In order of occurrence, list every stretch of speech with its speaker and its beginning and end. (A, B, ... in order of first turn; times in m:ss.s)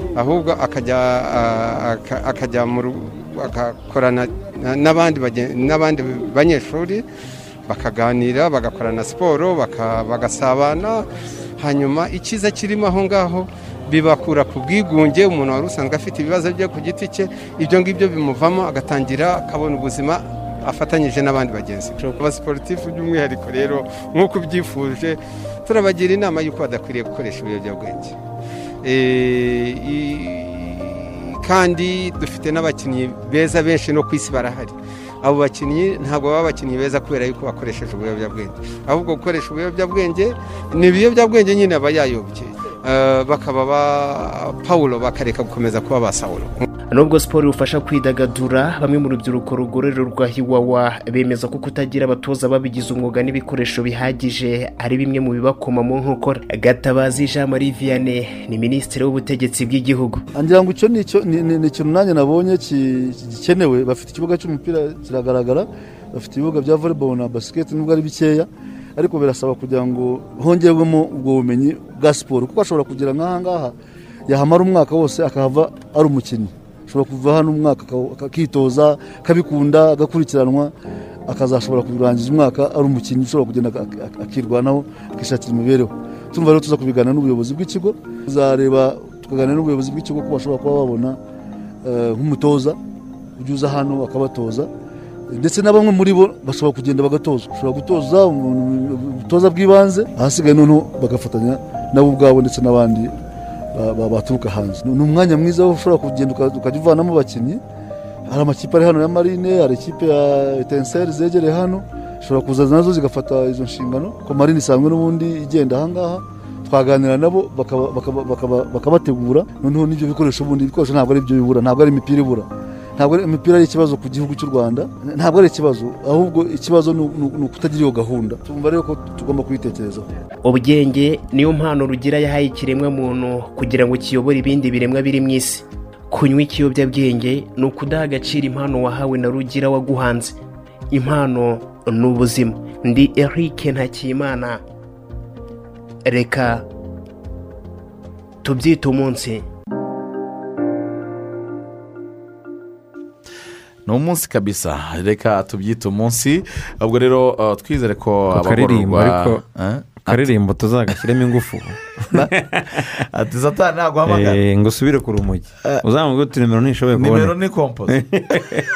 0:00.2-0:07.0 A
0:07.7-0:11.1 A
0:11.6-0:28.1 A
0:28.8-0:46.6 A
0:46.9-1:00.2 B
1:00.3-1:13.7 C
1:14.3-1:20.7 C
1:21.3-1:31.2 C
1:31.8-1:32.8 C
1:33.4-1:34.7 C
1:35.3-1:43.1 C
1:43.7-1:47.6 C
1:48.3-2:02.4 C
2:03.0-2:10.1 C
2:10.4-2:20.4 B
2:20.9-2:24.6 B
2:26.0-2:26.6 B
2:28.4-2:29.4 B
2:33.8-2:40.3 D
2:38.3-2:39.4 E
2:40.0-2:42.9 E
2:43.0-2:44.4 D
2:44.0-2:47.4 E
2:46.9-2:48.0 D
2:47.9-2:48.6 E